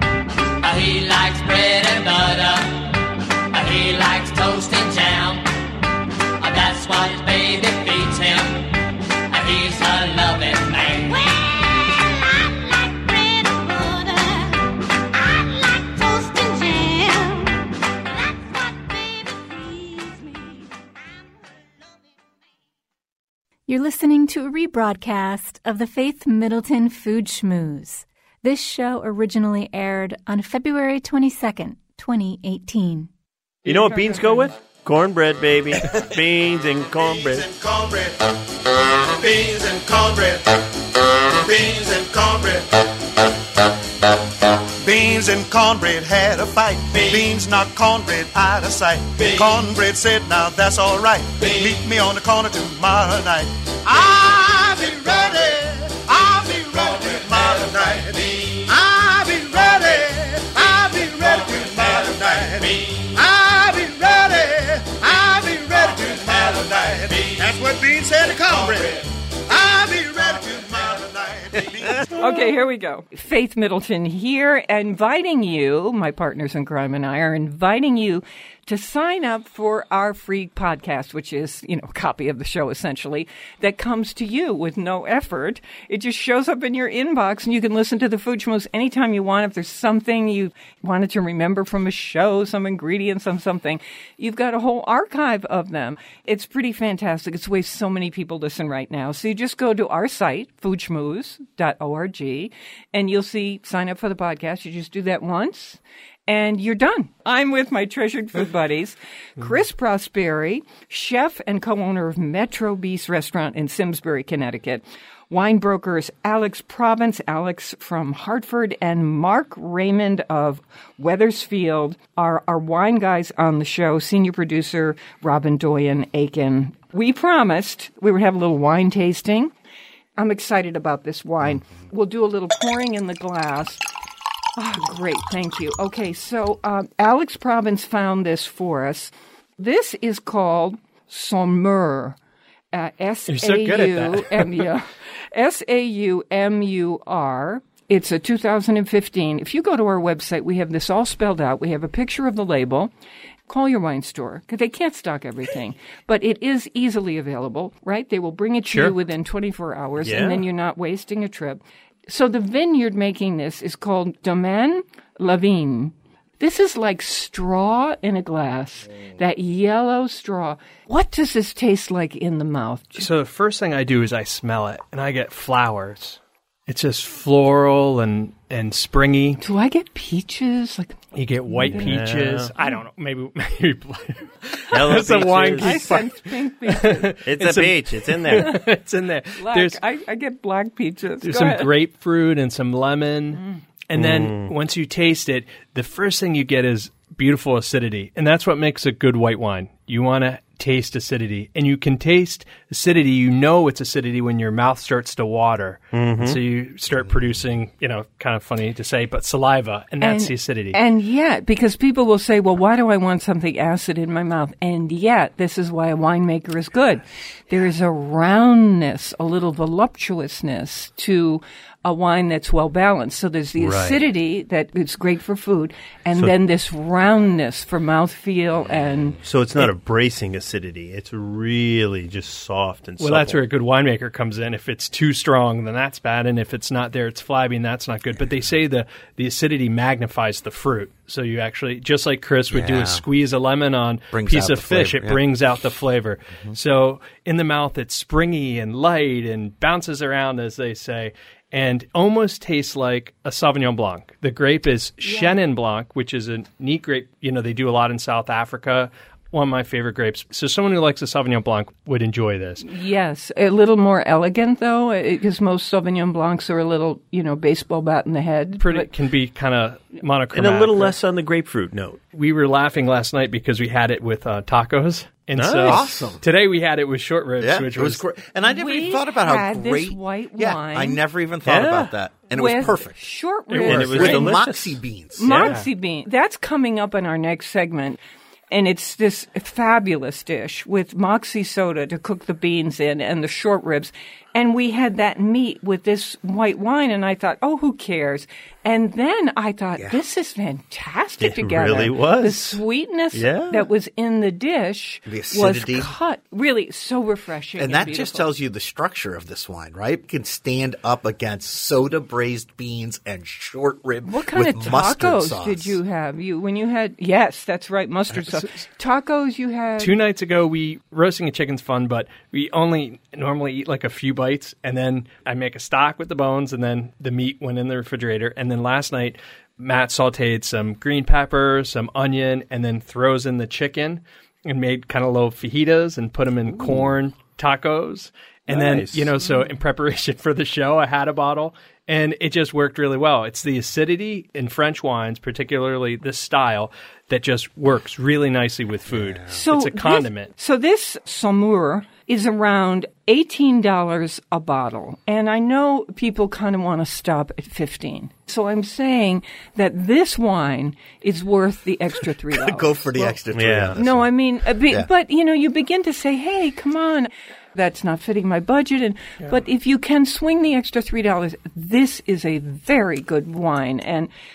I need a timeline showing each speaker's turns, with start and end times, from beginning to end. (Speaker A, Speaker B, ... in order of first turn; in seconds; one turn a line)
Speaker A: 0.6-5.4
Speaker A: 6.4-11.3
Speaker B: 11.1-20.9
Speaker C: 23.7-33.1
Speaker D: 33.6-37.5
Speaker C: 34.0-34.5
Speaker E: 36.9-38.3
Speaker E: 39.1-40.7
Speaker E: 41.2-42.9
Speaker E: 44.8-72.1
Speaker F: 72.2-129.5
Speaker F: 130.2-133.8
Speaker F: 134.6-142.2
Speaker F: 142.7-152.9
Speaker G: 143.3-144.7
Speaker F: 153.5-173.1
Speaker D: 160.0-160.5
Speaker G: 173.0-179.4
Speaker F: 179.4-181.1
Speaker G: 181.1-189.8
Speaker D: 181.5-182.5
Speaker F: 181.7-182.0
Speaker D: 184.7-186.0
Speaker F: 185.6-187.1
Speaker D: 187.2-188.6
Speaker F: 189.4-191.7
Speaker G: 191.2-210.8
Speaker F: 193.3-193.6
Speaker D: 193.9-194.5
Speaker D: 205.9-206.4
Speaker H: 206.9-207.5
Speaker F: 210.0-229.2
Speaker D: 223.6-224.0
Speaker D: 229.2-233.4
Speaker G: 233.0-262.6
Speaker H: 242.5-243.0
Speaker H: 244.1-245.2
Speaker F: 255.0-255.3
Speaker F: 262.6-268.9
Speaker G: 268.6-270.9
Speaker D: 270.3-272.0
Speaker G: 272.1-278.0
Speaker D: 275.3-276.1
Speaker H: 275.7-276.2
Speaker H: 277.4-283.0
Speaker F: 278.4-281.0
Speaker D: 281.4-281.9
Speaker F: 282.3-284.3
Speaker G: 283.5-284.4
Speaker D: 283.6-285.6
Speaker H: 283.7-285.4
Speaker F: 285.2-308.3
Speaker G: 285.3-285.6
Speaker H: 299.8-300.0
Speaker D: 301.2-302.6
Speaker D: 303.1-303.7
Speaker H: 305.1-305.9
Speaker H: 307.6-315.8
Speaker F: 314.1-320.0
Speaker G: 318.2-318.6
Speaker G: 319.8-350.3
Speaker D: 336.4-336.9
Speaker D: 338.5-339.2
Speaker H: 348.9-349.2
Speaker F: 349.3-363.1
Speaker H: 362.3-364.9
Speaker D: 363.3-363.8
Speaker F: 363.8-374.1